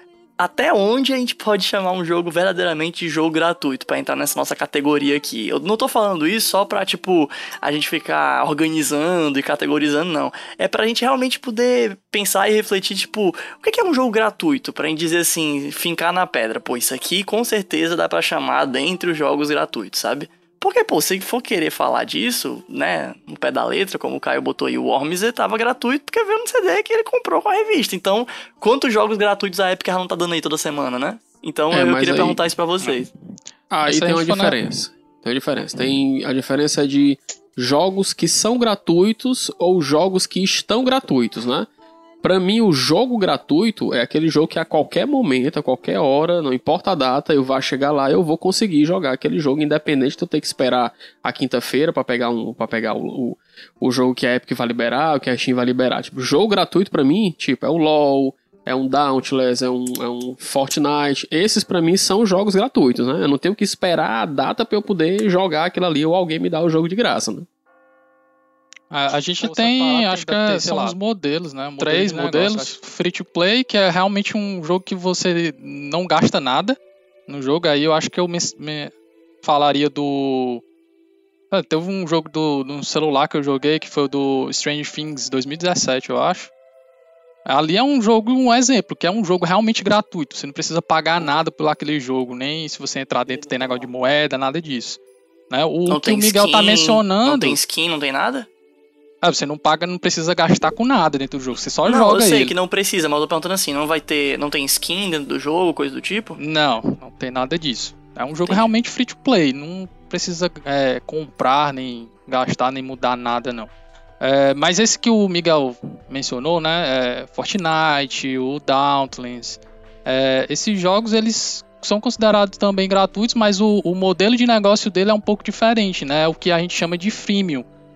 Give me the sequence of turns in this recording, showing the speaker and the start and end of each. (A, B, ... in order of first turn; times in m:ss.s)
0:00.4-0:33.1 A
0:31.7-0:32.4 B
0:33.7-0:41.7 B
0:33.8-0:34.6 C
0:42.2-1:07.5 B
1:08.9-1:20.6 C
1:09.4-1:10.9 B
1:11.8-1:12.7 B
1:21.5-1:26.5 C
1:27.4-1:35.0 C
1:35.5-1:37.6 C
1:35.9-1:38.5 A
1:39.2-1:42.5 C
1:41.8-1:46.4 A
1:46.4-2:07.6 C